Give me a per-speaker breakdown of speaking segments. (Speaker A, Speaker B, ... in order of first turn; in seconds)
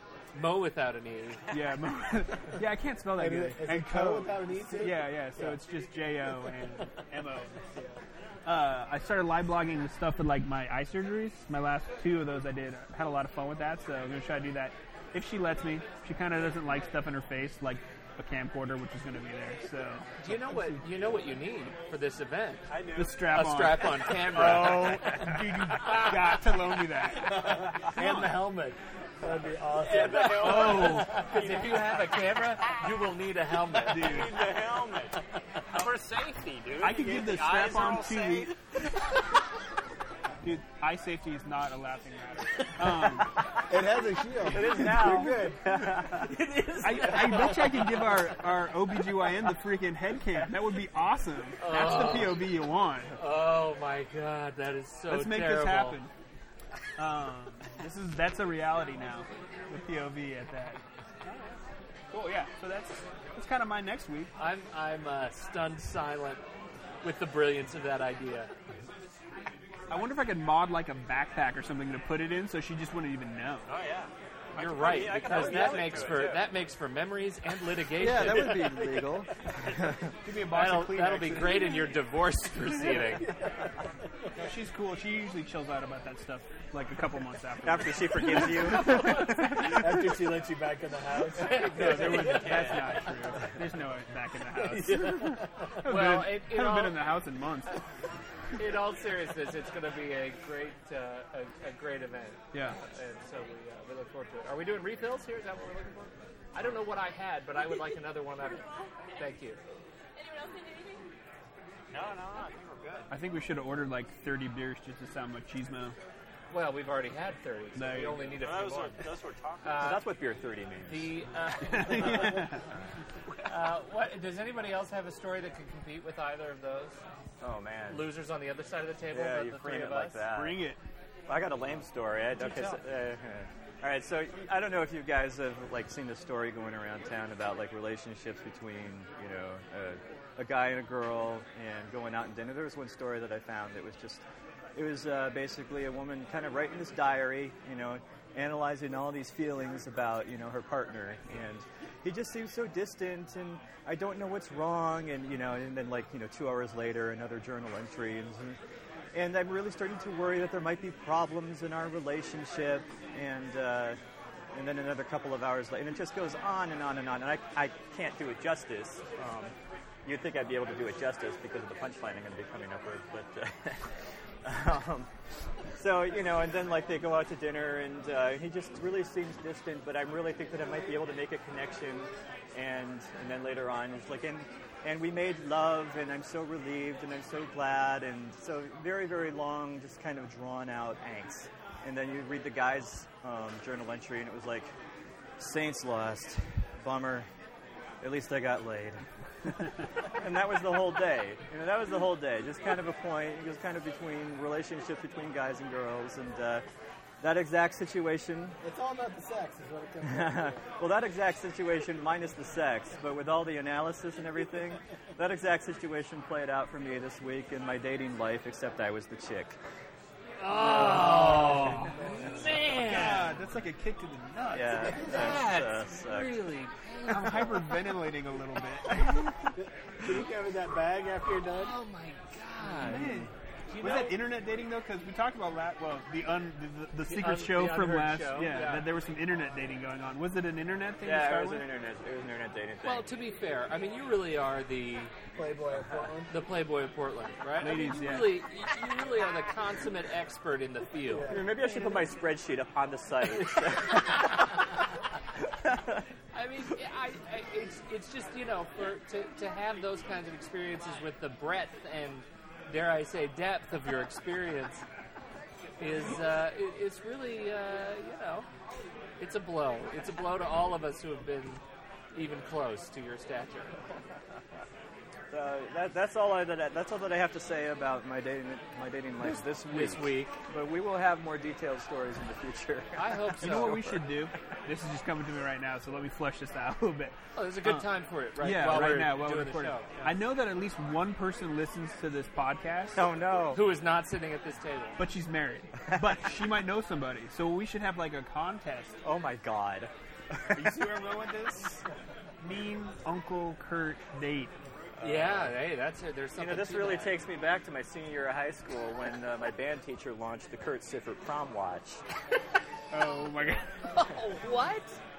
Speaker A: 0.3-1.5, 20.2-22.7, 23.3-25.1, 30.4-34.3, 46.1-47.9, 51.6-52.5, 53.2-56.0, 64.4-66.4, 67.0-68.5, 74.5-78.7, 80.5-83.3, 91.4-92.7, 95.8-97.0, 98.6-108.7, 109.2-109.6, 116.5-119.0, 119.6-120.0, 120.9-122.4, 123.5-127.0, 127.9-130.2, 132.3-132.8, 220.4-223.4, 224.8-227.8, 231.5-233.1, 233.7-234.2, 237.0-238.9, 242.8-245.1, 246.3-251.3, 256.3-264.8, 265.8-268.5, 269.2-271.6, 272.1-273.8, 279.2-280.4, 283.0-283.9, 287.4-290.1, 293.5-295.0, 305.0-307.2, 313.9-315.0
Speaker B: 1.5-7.9, 8.4-20.1, 22.9-28.5, 30.2-31.3, 33.9-34.4, 36.8-38.5, 40.4-43.4, 44.5-45.0, 46.8-53.2, 55.1-56.1, 57.0-60.8, 62.1-64.3, 69.9-73.7, 80.2-81.8, 84.3-90.2, 91.7-97.8, 102.5-102.8, 113.1-116.0, 117.8-118.4, 121.6-122.6, 130.3-130.8, 220.6-225.3, 227.1-229.6, 232.8-241.7, 247.6-248.4, 283.4-293.0, 295.0-298.9, 300.5-301.8, 302.4-304.5, 312.9-314.0
Speaker C: 3.1-5.6, 27.2-31.4, 43.6-45.6, 83.3-83.7, 89.7-92.5, 94.9-95.3, 208.6-210.6, 221.9-222.5, 229.6-231.7, 245.3-246.3, 251.1-251.7
Speaker D: 22.7-23.3, 29.8-32.2, 33.9-38.5, 73.7-76.5, 91.8-93.0, 111.9-113.1, 118.3-119.8
Speaker E: 44.5-46.3, 78.0-80.1, 87.6-89.7, 119.7-121.1, 127.4-128.1, 129.1-130.6, 131.3-144.2, 144.7-158.6, 159.1-164.0, 164.5-169.5, 170.0-173.9, 174.4-175.1, 175.8-194.7, 195.4-197.3, 198.0-199.0, 200.0-206.6, 207.2-208.6, 210.0-219.6, 224.5-226.4, 232.8-233.3, 241.0-243.1, 251.3-254.6, 255.6-256.0, 275.3-284.0, 292.9-293.6, 299.0-300.9, 305.0-305.5, 306.4-312.0